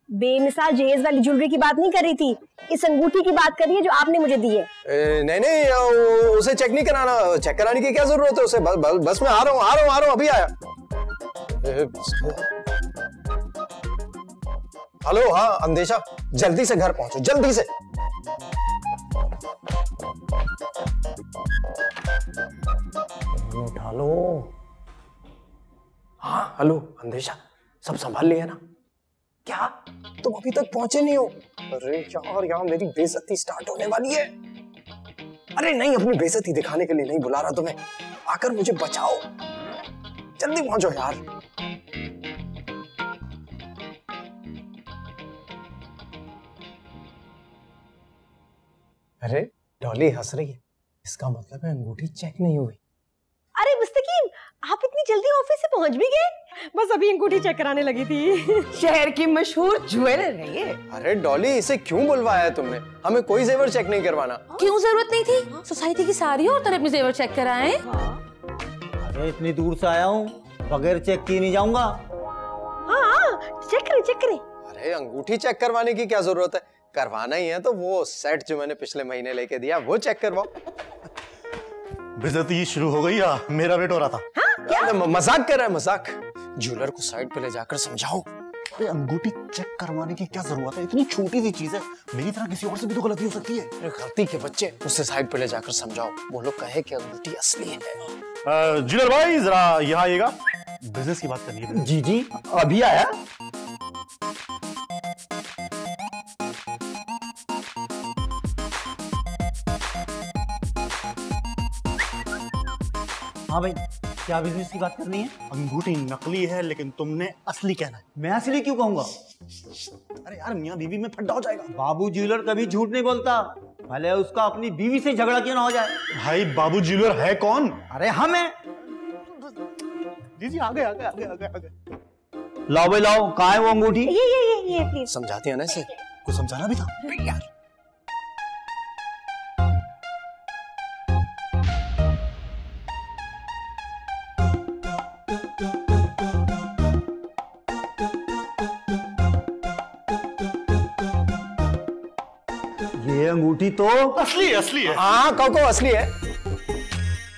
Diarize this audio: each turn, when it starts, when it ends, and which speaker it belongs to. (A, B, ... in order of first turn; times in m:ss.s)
0:00.2-0:04.7 A
0:04.8-0:10.5 B
0:11.6-0:12.4 B
0:15.0-0:17.7 B
0:23.3-0:24.5 B
0:26.2-0:28.6 B
0:29.4-0:34.3 B
0:35.6-0:39.3 B
0:40.4-0:41.2 B
0:49.2-0:52.8 B
0:53.6-0:58.7 A
0:58.7-1:00.8 C
1:00.9-1:04.4 B
1:04.6-1:07.8 D
1:05.7-1:06.2 A
1:09.0-1:11.9 E
1:12.9-1:14.4 A
1:14.7-1:20.5 B
1:22.2-1:24.2 F
1:24.4-1:24.9 A
1:24.6-1:28.3 B
1:28.7-1:33.7 F
1:33.8-1:38.0 B
1:38.4-1:41.9 F
1:41.7-1:43.1 E
1:53.5-1:55.4 E
1:55.5-1:58.0 F
1:58.1-1:59.1 E
2:00.2-2:01.7 F
2:01.7-2:05.9 E
2:06.1-2:07.8 F
2:07.9-2:08.5 E
2:10.4-2:11.7 F
2:12.7-2:14.2 E
2:14.0-2:15.1 A
2:15.1-2:15.9 B
2:16.2-2:16.9 F
2:17.1-2:17.4 B
2:33.0-2:34.2 E
2:34.2-2:35.0 F
2:34.9-2:36.1 B